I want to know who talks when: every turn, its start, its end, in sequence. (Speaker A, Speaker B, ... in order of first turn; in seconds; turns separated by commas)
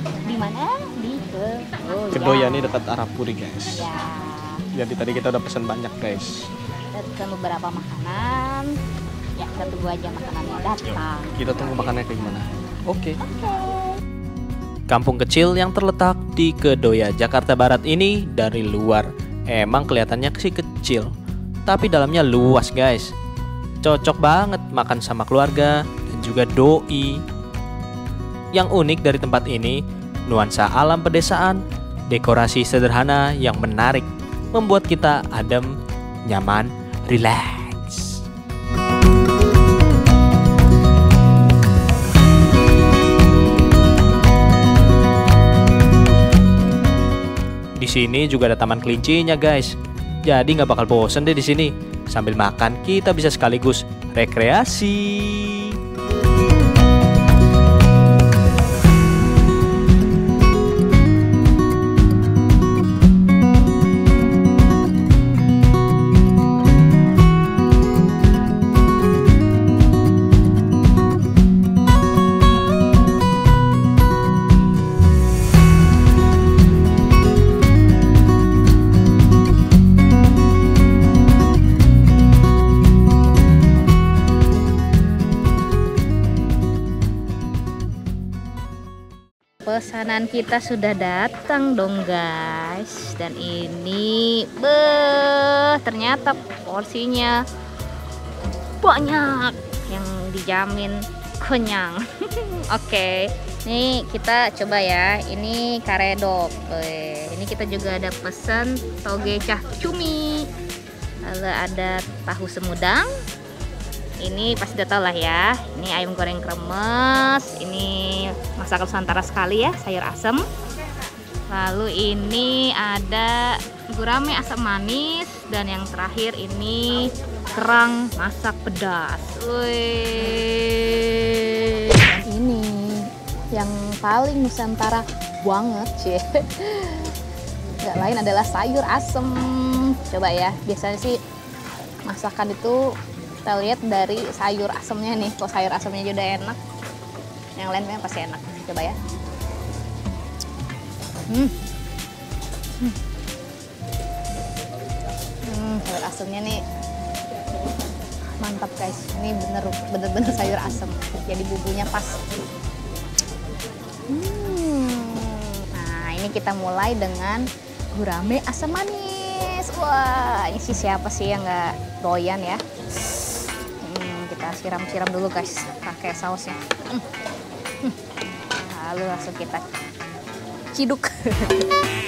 Speaker A: 0.3-2.8, Speaker B: 2.1-3.9, Speaker A: 3.7-4.6, Speaker B: 4.7-6.5, Speaker A: 6.9-8.7, Speaker A: 9.4-11.3, Speaker B: 10.9-13.2, Speaker A: 13.2-13.8, Speaker C: 14.9-21.1, Speaker C: 21.7-23.1, Speaker C: 23.8-27.2, Speaker C: 28.5-35.7, Speaker C: 36.3-38.2, Speaker C: 47.8-55.8, Speaker A: 89.7-97.4, Speaker A: 98.8-110.5, Speaker A: 111.2-113.1, Speaker A: 114.2-120.4, Speaker A: 121.5-137.1, Speaker A: 137.8-141.2, Speaker A: 142.1-142.9, Speaker A: 143.4-146.6, Speaker A: 147.6-149.0, Speaker A: 155.5-156.6, Speaker A: 158.4-162.2, Speaker A: 164.1-177.1, Speaker A: 178.5-179.6, Speaker A: 180.7-181.7